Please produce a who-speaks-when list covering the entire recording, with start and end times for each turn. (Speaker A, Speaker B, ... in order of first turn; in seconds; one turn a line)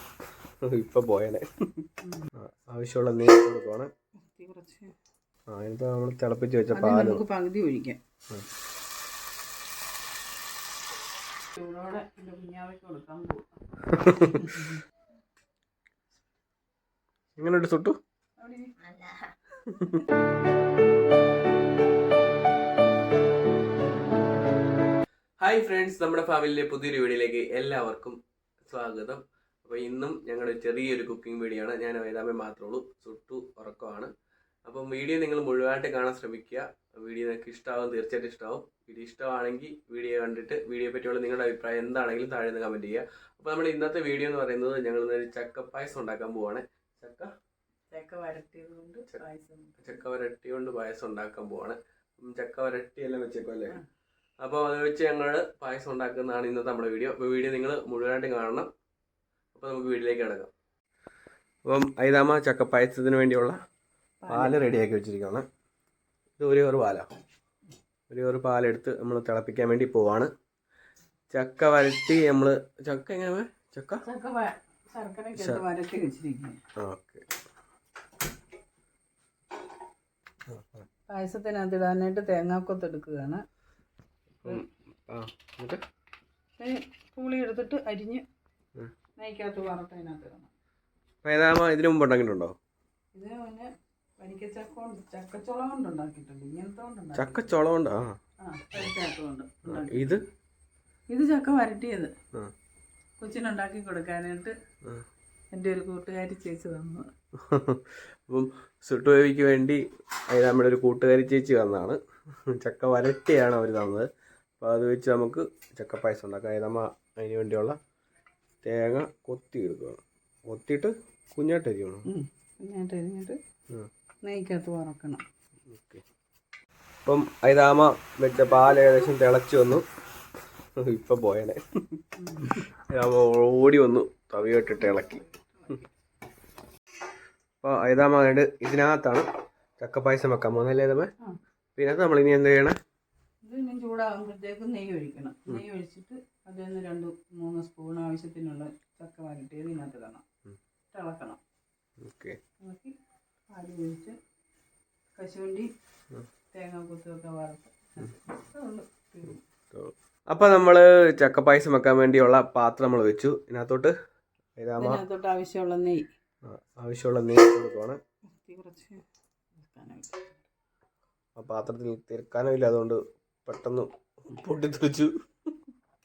Speaker A: 0.6-1.5
Speaker B: 2.0-2.3
Speaker A: 2.4-3.9
Speaker B: 4.2-4.9
Speaker A: 5.5-7.2
Speaker B: 6.7-8.0
Speaker B: 11.6-13.5
Speaker A: 13.9-14.8
Speaker B: 14.3-14.8
Speaker A: 17.4-18.0
Speaker B: 18.4-18.8
Speaker A: 19.6-20.1
Speaker A: 25.4-34.1
Speaker A: 34.7-47.3
Speaker B: 47.9-50.0
Speaker A: 49.8-53.8
Speaker A: 54.4-58.7
Speaker A: 59.5-60.5
Speaker A: 61.7-63.6
Speaker B: 64.2-64.6
Speaker A: 64.3-65.5
Speaker A: 66.4-67.1
Speaker A: 68.1-70.3
Speaker A: 71.3-74.0
Speaker B: 74.0-76.6
Speaker A: 75.4-75.6
Speaker A: 76.8-77.3
Speaker A: 80.5-80.9
Speaker B: 81.1-83.4
Speaker A: 84.4-85.8
Speaker B: 86.6-88.2
Speaker B: 89.2-90.5
Speaker A: 91.2-92.6
Speaker B: 93.2-97.5
Speaker A: 97.2-98.2
Speaker B: 98.4-100.2
Speaker A: 99.7-100.2
Speaker B: 101.1-102.1
Speaker B: 103.2-104.5
Speaker B: 105.5-107.1
Speaker A: 107.4-114.1
Speaker A: 114.6-117.8
Speaker A: 118.6-122.1
Speaker B: 122.1-123.4
Speaker B: 124.2-125.2
Speaker A: 125.7-126.0
Speaker A: 127.1-129.8
Speaker A: 130.8-135.2
Speaker B: 132.2-132.7
Speaker B: 134.5-135.9
Speaker A: 137.6-139.3
Speaker A: 139.8-141.1
Speaker A: 141.8-142.8
Speaker B: 143.4-150.2
Speaker B: 150.9-151.4
Speaker A: 152.0-152.4
Speaker B: 152.6-152.9
Speaker B: 153.5-154.2
Speaker B: 155.2-155.7
Speaker B: 156.5-159.4
Speaker A: 159.7-163.9
Speaker A: 164.6-165.0
Speaker B: 164.8-166.1
Speaker A: 166.5-168.0
Speaker B: 168.4-169.0
Speaker B: 169.6-170.4
Speaker A: 171.4-175.1